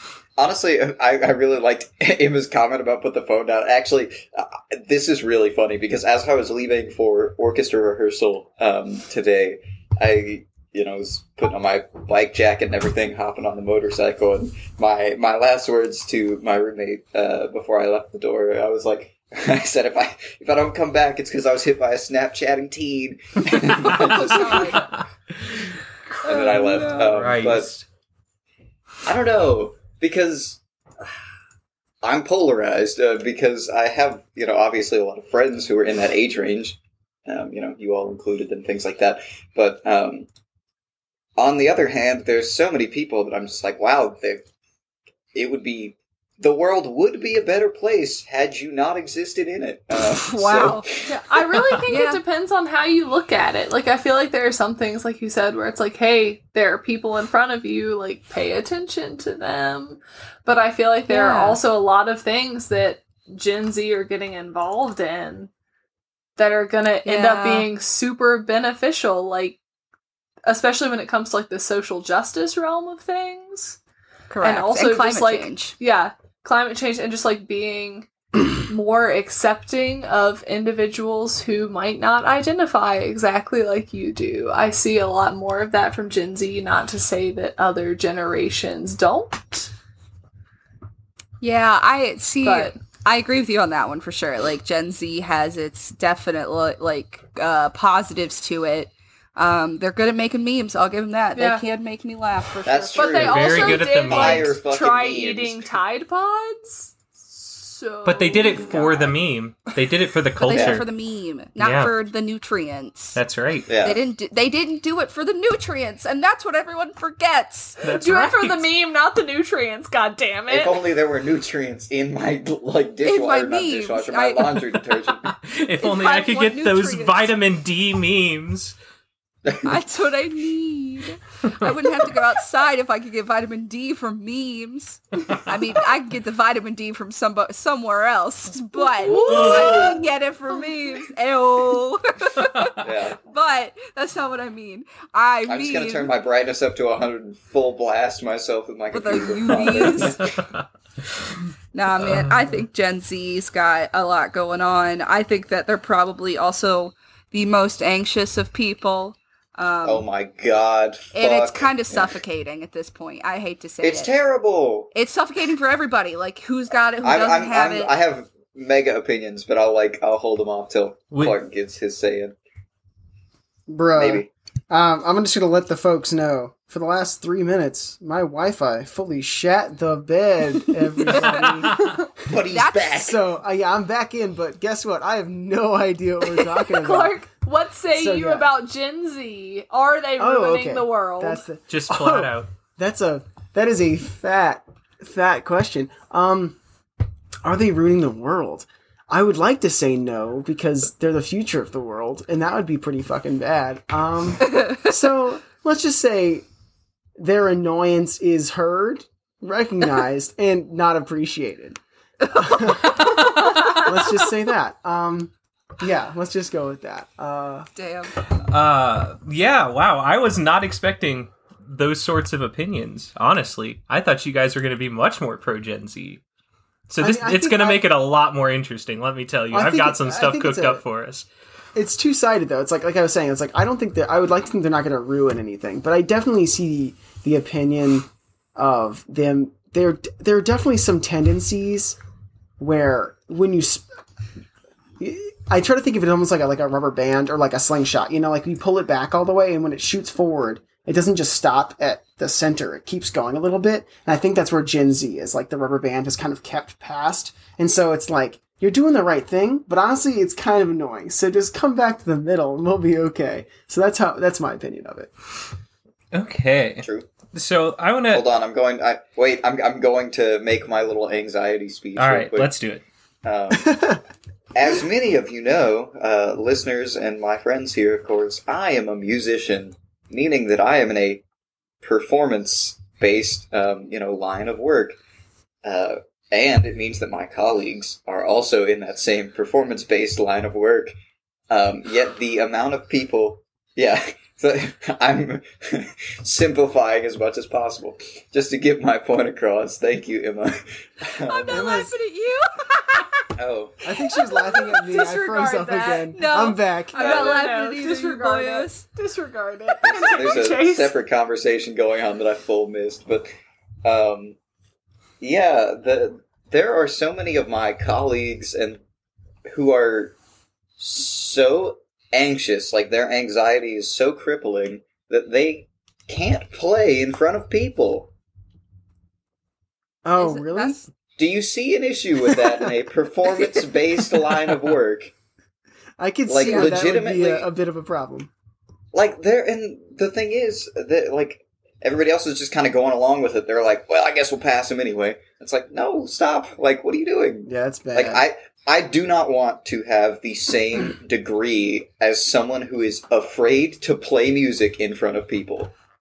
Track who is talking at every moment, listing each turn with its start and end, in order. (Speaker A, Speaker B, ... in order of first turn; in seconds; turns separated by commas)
Speaker A: 0.4-24.9, Speaker B: 23.7-25.8, Speaker C: 23.8-24.9, Speaker A: 26.2-27.7, Speaker C: 26.3-27.0, Speaker B: 26.4-27.9, Speaker D: 26.5-26.8, Speaker A: 29.1-30.6, Speaker A: 32.0-40.3, Speaker A: 41.4-44.4, Speaker A: 45.3-51.2, Speaker C: 50.0-50.9, Speaker D: 51.1-65.5, Speaker C: 51.9-52.2, Speaker C: 61.1-61.6, Speaker D: 66.4-69.6, Speaker C: 67.0-67.7, Speaker D: 70.5-73.8, Speaker C: 74.3-75.8, Speaker D: 74.4-78.1, Speaker D: 78.6-89.7, Speaker C: 91.4-103.3, Speaker D: 92.4-92.8, Speaker D: 101.3-101.7, Speaker A: 102.7-105.7, Speaker D: 103.0-109.1, Speaker B: 103.1-104.5, Speaker B: 108.0-110.8, Speaker C: 110.4-113.2, Speaker A: 110.5-110.8, Speaker B: 111.6-111.9, Speaker B: 113.2-113.7, Speaker A: 113.7-114.0, Speaker C: 113.8-117.8, Speaker B: 117.8-118.7, Speaker D: 117.9-120.8, Speaker A: 120.5-125.3, Speaker C: 123.0-124.6, Speaker B: 125.3-128.8, Speaker C: 125.8-127.3, Speaker A: 129.4-129.7, Speaker C: 129.6-146.1, Speaker D: 138.8-140.0, Speaker B: 139.1-139.9, Speaker A: 139.5-139.9, Speaker A: 142.8-143.2, Speaker A: 145.5-150.4, Speaker C: 148.9-150.2, Speaker B: 149.8-150.6, Speaker C: 151.7-160.1, Speaker B: 152.0-152.6, Speaker A: 159.8-162.2, Speaker C: 161.1-164.1, Speaker A: 163.8-164.9, Speaker C: 164.9-167.9, Speaker A: 167.0-172.3, Speaker B: 171.1-171.4, Speaker E: 173.7-182.3, Speaker A: 174.0-174.3, Speaker A: 182.2-183.2, Speaker C: 182.4-183.1, Speaker E: 183.0-187.2, Speaker D: 186.4-191.4, Speaker E: 187.9-188.5, Speaker E: 190.2-196.6, Speaker B: 191.7-192.5, Speaker E: 197.4-206.4, Speaker E: 207.2-217.7, Speaker C: 212.3-213.8, Speaker C: 217.8-218.2, Speaker B: 218.4-226.2, Speaker B: 226.9-231.3, Speaker E: 227.0-227.8, Speaker E: 229.5-230.8, Speaker E: 231.8-242.0, Speaker E: 242.6-243.8, Speaker E: 245.0-265.1, Speaker B: 266.1-268.2, Speaker A: 266.8-267.1, Speaker A: 268.1-272.5, Speaker B: 272.0-272.8, Speaker A: 273.2-273.9, Speaker E: 273.5-274.0, Speaker A: 274.5-281.2, Speaker A: 281.8-285.0, Speaker A: 285.6-291.0, Speaker A: 291.5-301.7, Speaker C: 301.2-303.3, Speaker E: 301.5-301.9, Speaker A: 303.4-303.9, Speaker E: 303.8-307.2, Speaker D: 304.4-306.2, Speaker C: 306.1-308.9, Speaker D: 306.9-311.0, Speaker A: 309.8-313.3, Speaker A: 313.8-314.4, Speaker A: 315.2-318.8, Speaker A: 319.5-320.2, Speaker A: 320.8-328.1, Speaker E: 330.0-330.9, Speaker C: 330.2-330.8, Speaker A: 331.2-335.1, Speaker E: 332.3-332.7, Speaker E: 336.0-338.3, Speaker A: 336.3-337.5, Speaker C: 336.4-336.8, Speaker A: 338.9-355.7, Speaker E: 347.5-348.2